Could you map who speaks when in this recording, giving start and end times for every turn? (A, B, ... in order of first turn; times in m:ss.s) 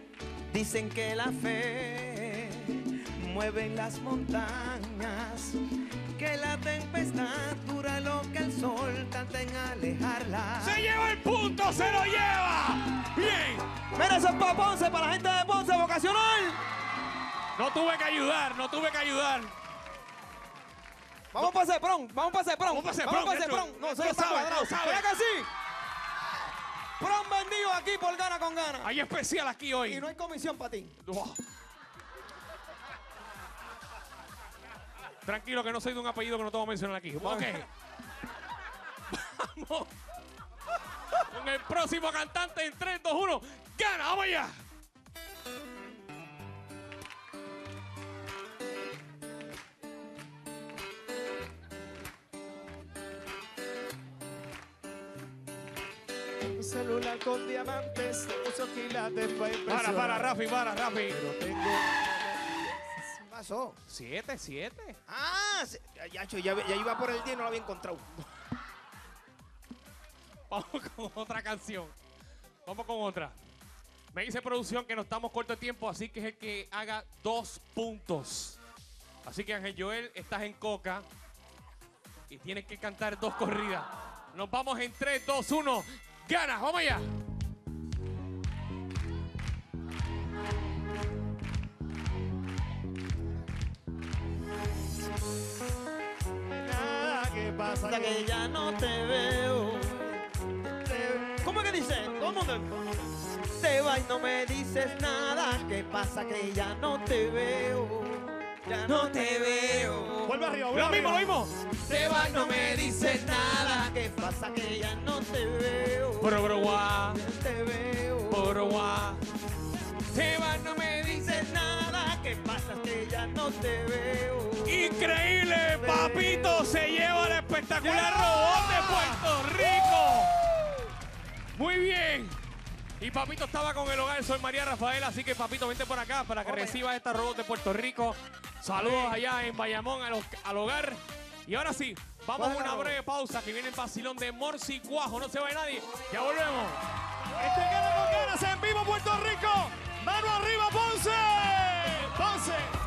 0:00.5-0:05.6 A
0:06.1-0:10.8 A
0:10.6-0:13.6 B
0:13.9-0:16.6 A
0:17.6-0:19.5 B
0:21.3-0:25.5 A
0:22.7-0:25.1 B
0:27.0-0:28.9 A
0:28.8-0:30.1 B
0:29.8-0:31.0 A
0:31.0-0:31.4 B
0:35.2-0:37.7 B
0:37.2-0:37.6 A
0:39.1-0:39.9 B
0:41.1-0:44.6 B
0:56.5-1:00.4 C
0:59.7-1:01.2 B
1:01.1-1:03.0 C
1:03.1-1:03.8 A
1:03.9-1:05.0 B
1:05.1-1:08.1 A
1:10.5-1:11.9 B
1:12.6-1:13.4 B
1:14.1-1:18.6 B
1:19.2-1:21.0 B
1:22.3-1:27.0 B
1:36.5-1:38.3 C
1:37.8-1:40.2 A
1:40.9-1:42.8 A
1:43.4-1:50.4 A
1:48.8-1:50.1 B
1:50.2-1:51.3 C
1:50.7-1:53.9 B
1:51.9-1:56.6 A
1:56.2-1:57.2 B
1:57.1-1:58.6 A
1:58.3-1:59.2 B
2:00.1-2:01.5 B
2:01.0-2:04.9 A
2:04.6-2:10.3 B
2:05.6-2:06.6 A
2:07.8-2:10.1 A
2:11.5-2:12.4 B
2:13.0-2:26.8 B
2:16.4-2:16.8 A
2:18.7-2:19.2 C
2:22.4-2:23.0 A
2:27.4-2:32.7 C